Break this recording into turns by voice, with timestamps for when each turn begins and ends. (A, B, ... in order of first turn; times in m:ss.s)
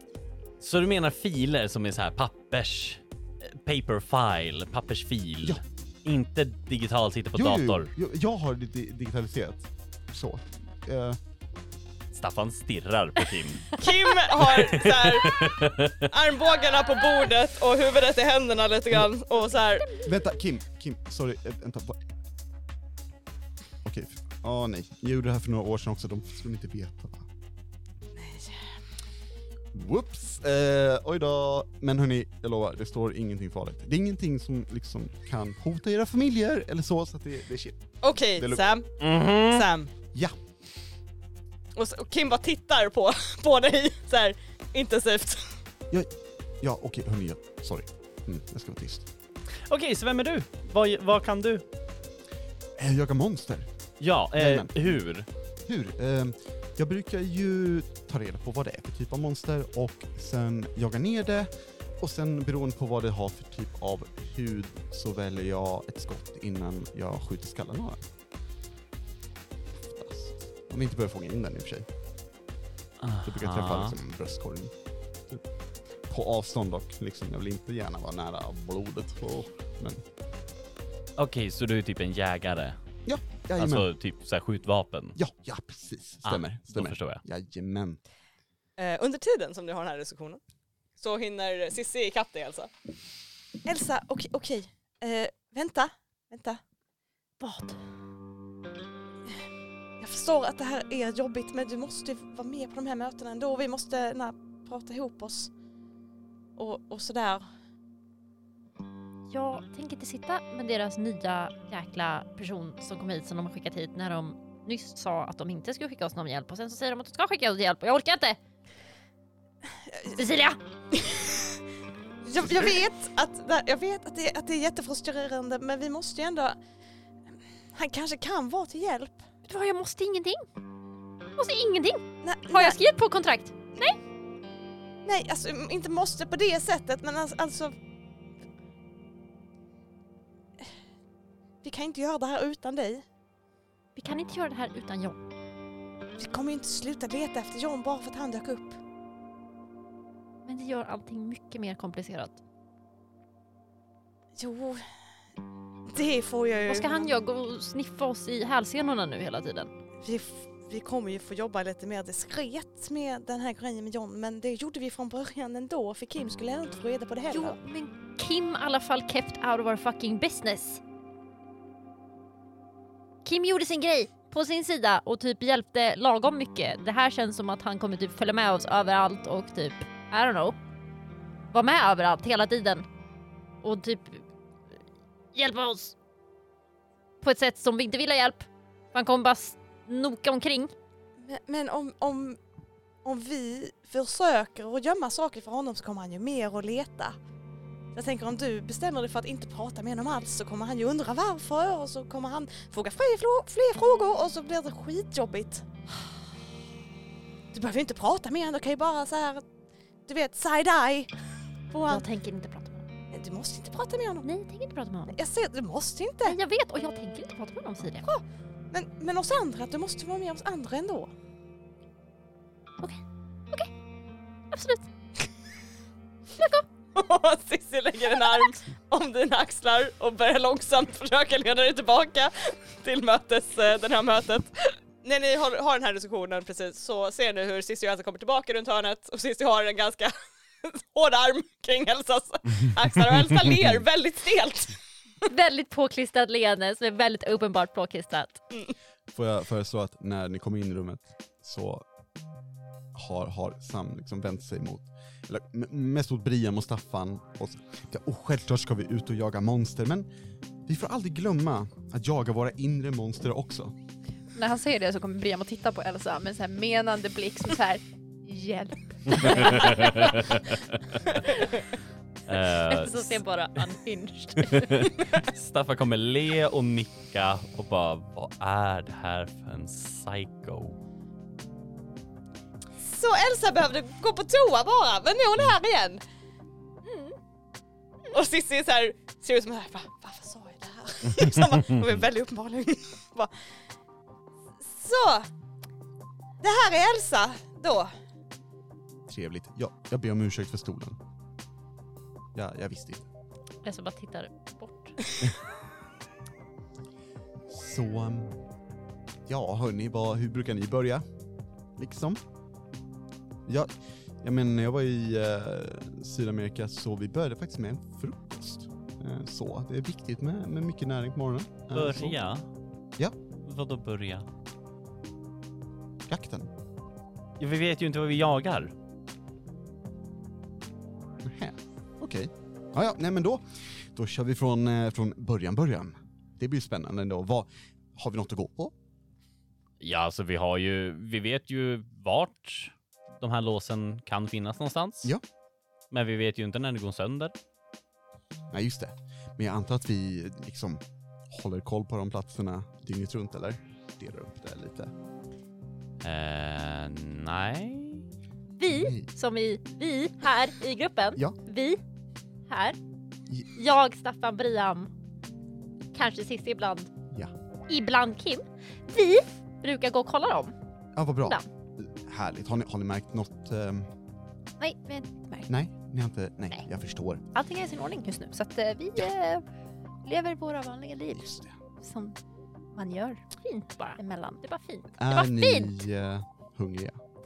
0:00.6-0:07.9 A
0:07.3-0:11.2 B
0:12.1-0:13.8 A
0:13.8-0:15.5 C
0:14.4-0:16.1 A
0:16.1-0:20.0 C
0:20.0-0:22.0 B
0:23.8-0:27.3 B
0:28.2-0:28.6 C
0:29.7-0:38.6 B
0:38.0-0:39.9 C
0:39.0-0:39.7 A
0:41.8-0:45.6 C
0:45.9-0:49.1 B
0:49.7-0:51.6 A
0:52.8-0:53.7 B
0:54.0-0:55.3 A
0:54.4-0:55.0 B
0:55.7-1:08.0 B
1:09.8-1:11.9 B
1:13.0-1:14.0 A
1:13.2-1:14.7 B
1:16.1-1:20.0 B
1:21.2-1:22.8 A
1:23.1-1:23.9 B
1:23.6-1:25.2 A
1:25.2-1:28.0 B
1:26.2-1:27.2 A
1:28.8-1:30.4 C
1:31.0-1:32.7 C
1:33.6-1:36.6 C
1:37.4-1:37.8 D
1:40.0-1:45.5 C
1:46.6-1:47.4 C
1:49.3-1:58.4 D
2:00.1-2:00.6 D
2:00.9-2:01.6 C
2:02.2-2:06.6 C
2:07.7-2:09.2 C
2:09.5-2:10.4 D
2:11.4-2:14.0 D
2:12.2-2:12.8 C
2:15.0-2:17.7 C
2:21.6-2:23.0 C
2:24.0-2:25.2 D
2:26.2-2:28.8 C
2:30.4-2:32.4 D
2:34.4-2:34.8 C
2:35.9-2:37.2 C
2:36.7-2:39.7 D
2:40.0-2:47.6 C
2:47.3-2:50.8 D
2:53.2-3:00.6 D
3:01.5-3:02.9 D
3:03.6-3:04.2 D
3:05.3-3:06.0 D
3:07.2-3:10.7 D
3:11.2-3:12.4 C
3:13.0-3:17.2 C
3:17.9-3:25.7 C
3:27.5-3:29.4 C
3:30.1-3:31.1 C
3:31.7-3:32.1 C
3:31.9-3:32.9 D
3:33.1-3:34.3 C
3:34.2-3:35.2 D
3:35.1-3:36.4 C
3:36.2-3:38.1 D
3:38.0-3:41.1 C
3:42.8-3:43.7 D
3:44.5-3:44.9 D
3:46.4-3:46.6 D
3:47.0-4:04.8 C
4:05.3-4:08.4 D
4:09.1-4:11.8 B
4:12.9-4:20.1 B
4:20.6-4:23.8 B
4:24.3-4:30.3 E
4:29.2-4:31.0 A
4:32.3-4:33.2 A
4:32.7-4:34.9 D
4:34.4-4:40.8 A
4:42.8-4:46.0 C
4:46.8-4:47.2 D
4:48.1-4:53.3 C
4:54.6-4:55.3 C
4:56.4-4:57.9 C
4:59.1-5:01.0 B
5:02.4-5:03.1 B
5:03.6-5:05.0 D
5:07.5-5:08.4 B
5:09.3-5:11.0 B
5:11.8-5:12.2 B
5:14.2-5:22.2 B
5:21.7-5:22.4 A
5:23.4-5:24.3 A
5:26.1-5:26.5 B
5:27.4-5:28.7 A
5:31.2-5:38.7 B
5:39.8-5:45.1 A
5:45.9-5:47.3 A
5:48.5-5:54.9 B
5:56.0-5:58.0 A
5:58.6-6:01.8 D
5:58.7-5:59.1 B
6:02.5-6:02.8 D
6:03.6-6:04.9 D
6:05.9-6:06.9 D
6:07.7-6:10.6 D
6:11.0-6:13.9 B
6:14.6-6:15.5 E
6:15.5-6:17.2 B
6:17.3-6:19.4 E
6:20.0-6:22.2 E
6:21.1-6:21.5 B
6:22.7-6:23.2 E
6:23.4-6:25.8 D
6:24.0-6:24.4 E
6:25.0-6:27.0 B